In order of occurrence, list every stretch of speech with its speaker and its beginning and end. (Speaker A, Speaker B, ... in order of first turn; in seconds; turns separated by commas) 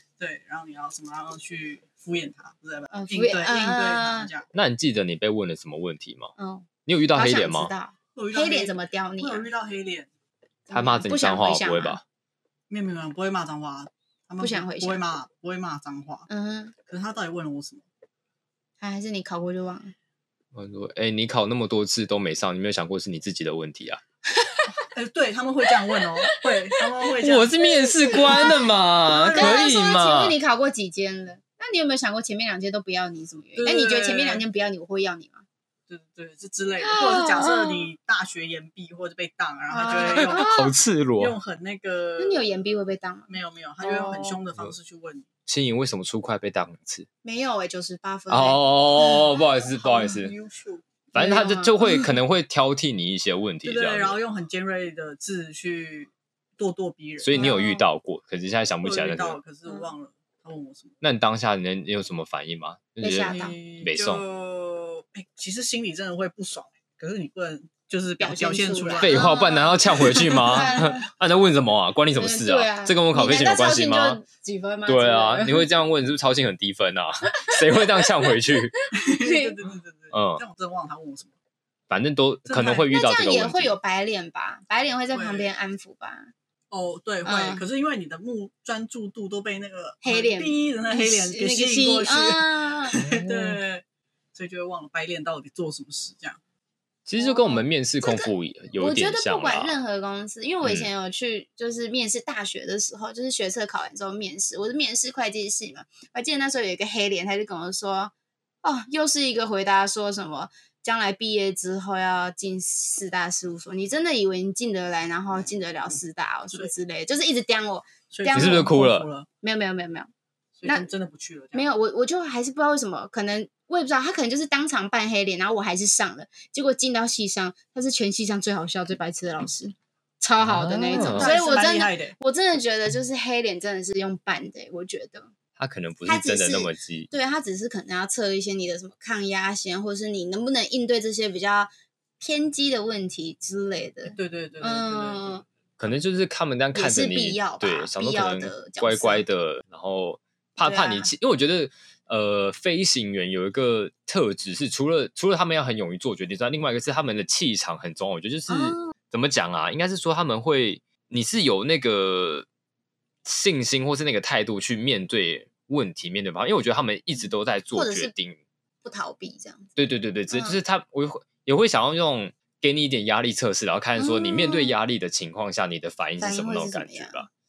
Speaker A: 0.2-4.5, Speaker B: 2.9-4.3, Speaker C: 4.5-6.3, Speaker B: 6.4-9.5, Speaker C: 6.9-7.7, Speaker A: 8.2-10.1, Speaker B: 10.7-12.0, Speaker C: 10.7-12.0, Speaker A: 12.7-16.3, Speaker B: 14.4-15.1, Speaker B: 16.3-16.7, Speaker A: 16.9-17.8, Speaker B: 18.8-19.9, Speaker C: 20.5-24.0, Speaker B: 24.3-24.8, Speaker A: 24.9-28.3, Speaker B: 26.3-26.8, Speaker C: 27.2-30.4, Speaker B: 27.6-35.5, Speaker A: 29.3-29.6, Speaker A: 33.6-34.4, Speaker A: 35.9-40.6, Speaker B: 36.8-37.9, Speaker C: 37.2-37.6, Speaker B: 39.7-40.7, Speaker C: 40.0-41.4, Speaker A: 41.2-42.5, Speaker B: 42.2-44.4, Speaker A: 43.3-45.3, Speaker C: 45.5-47.1, Speaker B: 47.2-50.2, Speaker C: 48.3-50.3, Speaker A: 49.9-50.8, Speaker B: 51.1-52.1, Speaker C: 51.1-54.2, Speaker A: 53.6-57.5, Speaker C: 57.2-59.4, Speaker B: 57.3-57.9, Speaker A: 58.8-61.0, Speaker C: 61.0-64.2, Speaker B: 63.0-63.5, Speaker A: 63.2-69.3, Speaker B: 68.2-71.1, Speaker C: 69.0-74.2, Speaker A: 70.2-70.5, Speaker B: 72.2-75.7, Speaker C: 74.9-78.8, Speaker B: 78.2-79.5, Speaker A: 78.9-81.3, Speaker C: 80.1-80.4, Speaker C: 81.9-83.8, Speaker A: 82.5-82.9, Speaker B: 82.9-86.3, Speaker A: 85.1-85.5, Speaker A: 86.7-93.8, Speaker B: 87.2-87.6, Speaker B: 90.0-93.1, Speaker C: 93.0-93.6, Speaker A: 94.3-96.4, Speaker C: 97.1-99.8, Speaker B: 97.2-118.7, Speaker C: 100.6-100.9, Speaker A: 118.1-119.3, Speaker C: 118.3-119.1, Speaker B: 119.4-120.1, Speaker A: 120.6-121.7, Speaker B: 121.5-135.3, Speaker C: 130.4-131.3, Speaker A: 130.9-132.2, Speaker C: 135.6-137.1, Speaker B: 136.1-145.4, Speaker A: 144.1-145.4, Speaker C: 145.8-162.5, Speaker B: 146.7-149.2, Speaker B: 150.6-151.1, Speaker B: 158.5-158.9, Speaker C: 163.2-168.4, Speaker B: 167.7-168.1, Speaker B: 168.8-169.8, Speaker C: 169.8-177.3, Speaker B: 170.3-170.6, Speaker B: 174.0-174.7, Speaker B: 176.2-177.2